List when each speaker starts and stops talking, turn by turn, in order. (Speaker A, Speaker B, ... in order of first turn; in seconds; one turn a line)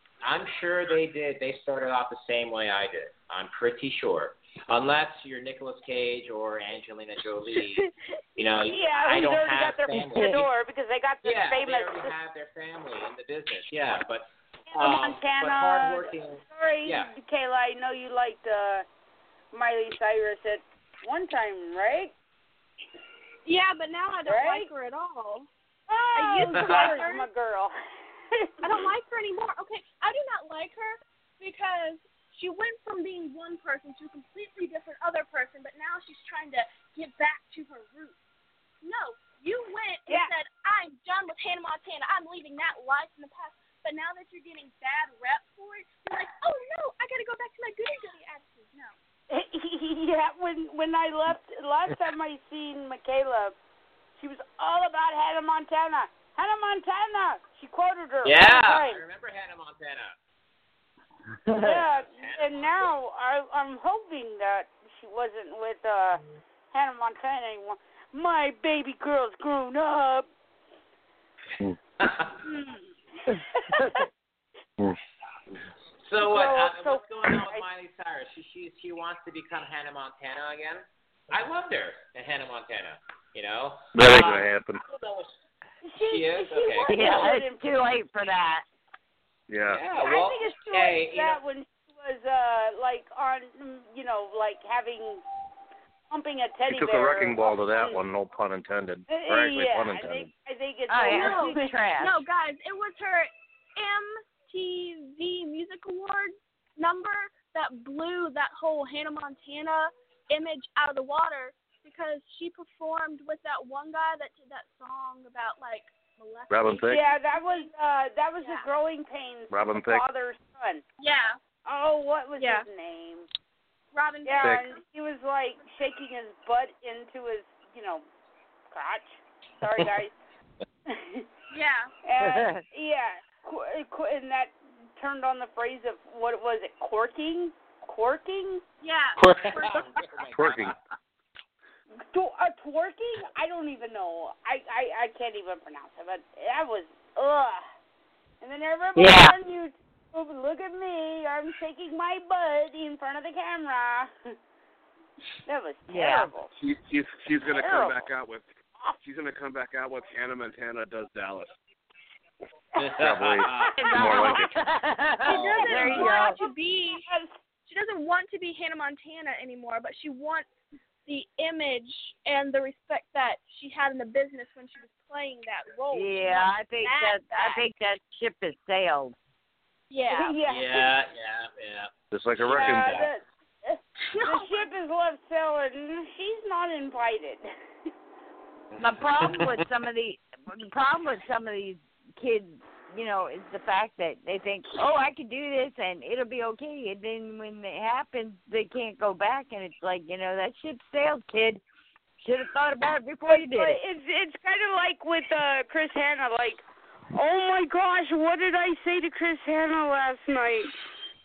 Speaker A: 0.2-10.5
Speaker B: 8.7-12.1
Speaker A: 11.2-17.1
Speaker B: 14.7-18.8
Speaker B: 19.5-22.1
Speaker C: 23.4-25.5
Speaker B: 24.2-24.7
Speaker B: 25.9-27.7
Speaker C: 26.1-27.3
Speaker A: 26.5-26.9
Speaker C: 28.6-38.1
Speaker C: 38.8-48.9
Speaker B: 49.3-53.5
Speaker B: 54.2-59.0
Speaker A: 58.2-60.2
Speaker D: 61.5-61.8
Speaker B: 61.6-66.2
Speaker A: 62.0-62.7
Speaker B: 66.7-70.3
Speaker A: 72.0-72.4
Speaker B: 72.5-72.8
Speaker B: 73.5-74.0
Speaker A: 76.0-85.3
Speaker B: 76.2-77.6
Speaker E: 83.9-84.8
Speaker B: 85.8-87.6
Speaker A: 86.0-87.3
Speaker D: 86.9-88.6
Speaker E: 89.5-89.8
Speaker A: 89.7-91.4
Speaker B: 90.0-95.2
Speaker B: 96.1-98.0
Speaker E: 96.7-100.3
Speaker B: 99.1-101.7
Speaker D: 100.9-102.2
Speaker C: 101.1-117.7
Speaker E: 116.5-117.0
Speaker B: 116.9-120.8
Speaker E: 119.5-120.0
Speaker C: 121.0-121.4
Speaker B: 121.7-123.3
Speaker C: 122.4-122.7
Speaker C: 123.9-124.6
Speaker B: 124.2-128.0
Speaker B: 128.7-129.1
Speaker B: 129.6-130.1
Speaker B: 130.9-131.2
Speaker C: 131.5-131.9
Speaker B: 132.0-138.6
Speaker D: 132.2-132.6
Speaker C: 138.8-140.0
Speaker A: 139.2-140.8
Speaker E: 140.3-140.7
Speaker B: 142.1-147.6
Speaker B: 148.4-154.3
Speaker D: 149.0-149.3
Speaker B: 155.4-156.5
Speaker D: 155.9-156.3
Speaker F: 156.6-158.5
Speaker B: 157.5-158.0
Speaker F: 159.0-161.6
Speaker A: 162.8-164.4
Speaker E: 163.0-164.5
Speaker D: 163.8-166.4
Speaker C: 165.3-167.1
Speaker B: 165.3-166.2
Speaker A: 165.4-166.1
Speaker B: 167.1-167.3
Speaker C: 167.7-170.4
Speaker C: 171.1-176.5
Speaker D: 175.9-179.1
Speaker B: 176.8-177.6
Speaker C: 179.9-180.4
Speaker B: 180.2-180.9
Speaker A: 180.4-183.1
Speaker E: 182.1-183.1
Speaker B: 182.5-187.4
Speaker C: 184.1-184.6
Speaker A: 188.7-189.6
Speaker D: 188.8-201.6
Speaker D: 202.2-203.8
Speaker B: 203.2-206.6
Speaker B: 207.1-210.7